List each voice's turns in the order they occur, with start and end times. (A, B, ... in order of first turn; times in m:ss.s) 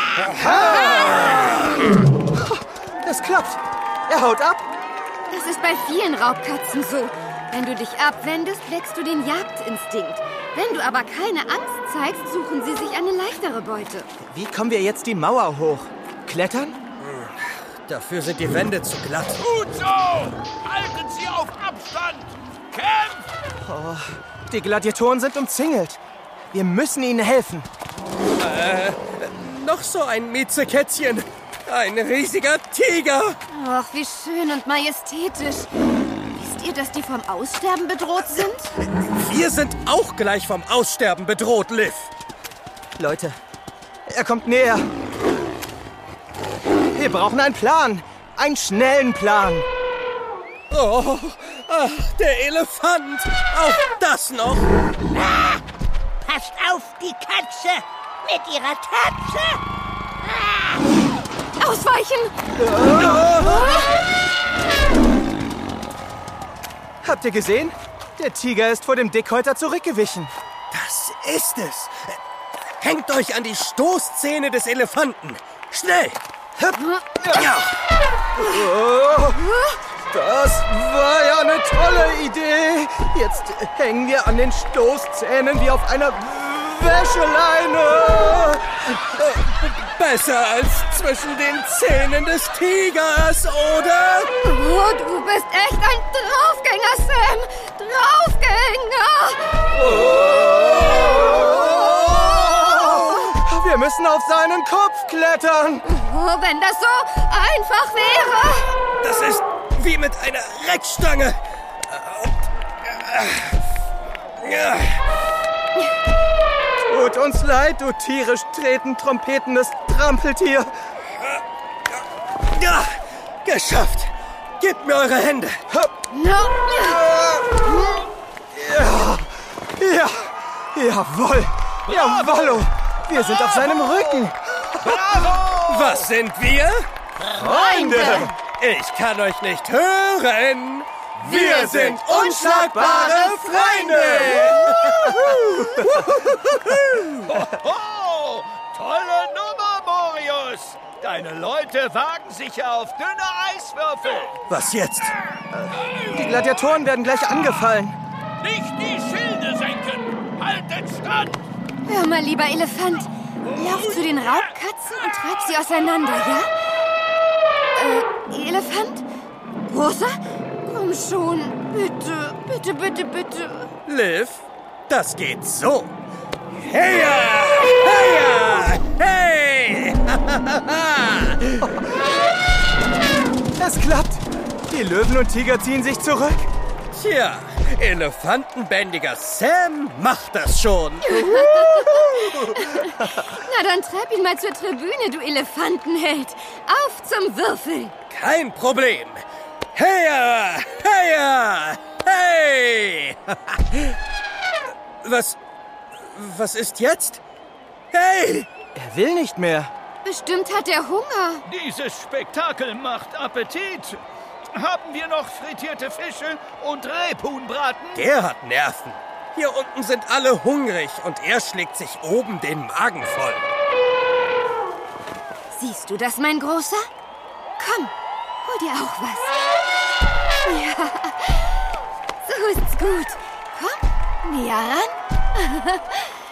0:00.3-0:00.9 A
0:00.7-0:01.3 B
0:02.3-0:04.6 A
0:05.3-0:14.1 B
0:14.2-0:16.8 A
0:17.0-0:19.4 C
0:19.4-0:23.3 D
0:23.6-0:26.0 A
0:26.5-0:27.7 A
0:28.4-0:33.4 C
0:33.5-0:35.7 B
0:36.3-0:38.7 B
0:39.0-0:42.1 C
0:43.0-0:43.3 A
0:44.1-0:44.9 A
0:46.9-0:49.6 A
0:50.7-0:54.7 C
0:55.2-0:55.6 E
0:56.2-0:59.6 E
1:01.6-1:02.3 B
1:02.6-1:03.8 A
1:02.9-1:03.8 B
1:07.0-1:10.3 A
1:10.7-1:12.2 C
1:12.8-1:16.2 C
1:16.6-1:17.5 A
1:17.4-1:17.7 C
1:18.4-1:19.5 A
1:19.4-1:19.8 B
1:20.1-1:28.8 A
1:29.4-1:34.3 C
1:34.4-1:39.6 B
1:39.7-1:45.8 A
1:41.2-1:43.1 B
1:45.9-1:48.8 B
1:49.0-1:53.6 C
1:54.4-1:55.0 C
1:56.9-2:00.7 A
2:02.5-2:05.6 C
2:06.1-2:08.1 B
2:07.0-2:07.3 A
2:08.5-2:14.9 A
2:11.9-2:12.5 F
2:15.0-2:15.8 F
2:15.2-2:16.8 C
2:17.3-2:18.3 A
2:17.4-2:18.3 B
2:18.4-2:27.2 C
2:21.2-2:23.7 B
2:21.2-2:26.4 A
2:27.3-2:34.4 F
2:34.5-2:35.1 C
2:35.5-2:38.0 A
2:38.4-2:41.4 D
2:41.9-2:46.5 B
2:47.7-2:49.0 B
2:49.7-2:50.1 B
2:50.6-2:53.7 B
2:53.8-2:55.9 C
2:56.6-3:01.6 C
3:01.6-3:01.9 A
3:03.6-3:06.4 A
3:06.9-3:12.6 C
3:11.1-3:17.9 B
3:18.1-3:19.2 C
3:19.7-3:24.0 C
3:25.0-3:25.4 C
3:26.0-3:27.2 C
3:27.9-3:28.5 C
3:28.8-3:29.7 A
3:30.0-3:31.4 B
3:31.4-3:34.0 F
3:34.5-3:38.0 F
3:37.9-3:43.4 C
3:45.5-3:46.9 B
3:47.6-3:47.9 B
3:48.4-3:49.3 B
3:50.4-3:51.6 B
3:52.2-3:56.1 B